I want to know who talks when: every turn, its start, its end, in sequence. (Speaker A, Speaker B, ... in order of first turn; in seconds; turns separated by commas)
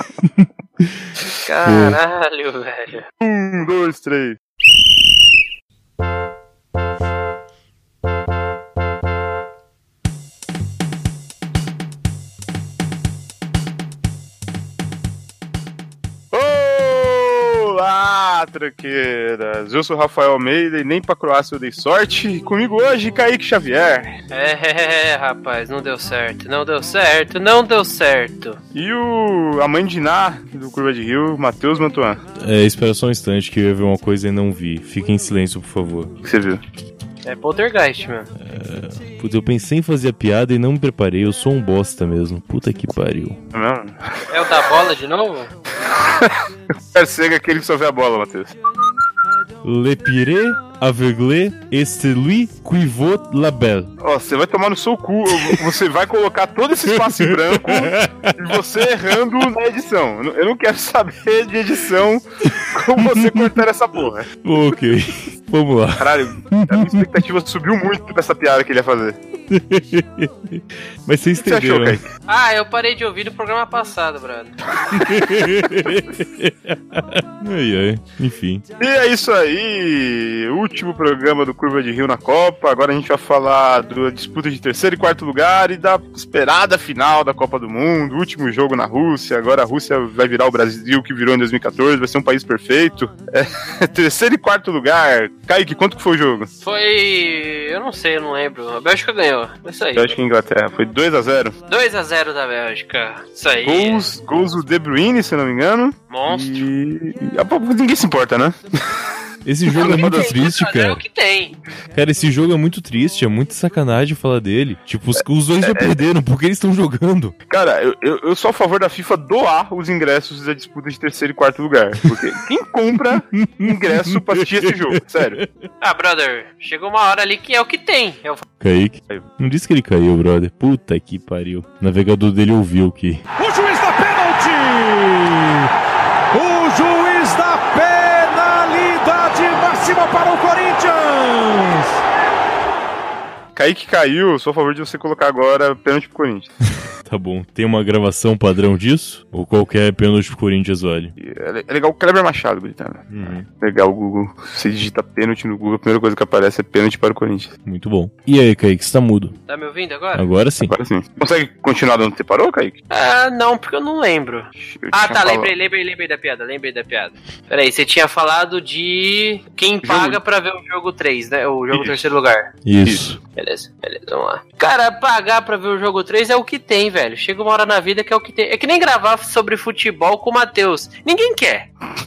Speaker A: 0.3-1.0, Speaker B: 1.4-3.0, Speaker A: 1.6-2.0, Speaker C: 3.2-4.4, Speaker C: 16.3-24.2, Speaker B: 24.3-28.6, Speaker C: 28.7-32.2, Speaker A: 32.4-36.2, Speaker C: 36.2-36.6, Speaker B: 37.2-38.3, Speaker A: 38.4-43.4, Speaker C: 43.5-44.0, Speaker B: 44.3-45.5, Speaker C: 45.9-48.5, Speaker A: 49.6-53.9, Speaker C: 54.0-64.3, Speaker A: 55.3-55.6, Speaker A: 56.9-59.1, Speaker A: 62.7-63.6, Speaker A: 64.4-67.2, Speaker C: 66.0-69.2, Speaker A: 69.5-72.0, Speaker C: 71.4-72.0, Speaker B: 72.3-74.6, Speaker A: 74.9-78.6, Speaker C: 78.8-96.5, Speaker B: 96.6-100.1, Speaker C: 99.9-101.5, Speaker B: 101.7-104.0, Speaker C: 103.6-108.6, Speaker B: 106.1-106.7, Speaker A: 109.4-111.0, Speaker C: 109.7-110.3, Speaker B: 109.7-111.6, Speaker A: 111.9-117.3, Speaker C: 115.6-116.0, Speaker C: 117.5-125.4, Speaker A: 123.3-125.5, Speaker B: 125.8-128.4, Speaker A: 128.6-133.2, Speaker D: 133.4-135.7, Speaker D: 136.3-141.9, Speaker C: 143.5-146.5, Speaker A: 147.0-151.1, Speaker C: 151.2-157.5, Speaker A: 153.1-153.4, Speaker A: 157.6-159.3, Speaker B: 159.5-160.3, Speaker A: 160.1-160.7, Speaker C: 160.6-162.8, Speaker B: 162.9-172.5, Speaker C: 164.6-165.5, Speaker C: 169.8-170.2, Speaker C: 171.7-172.0, Speaker A: 172.6-173.2, Speaker C: 172.8-173.1, Speaker B: 173.3-181.7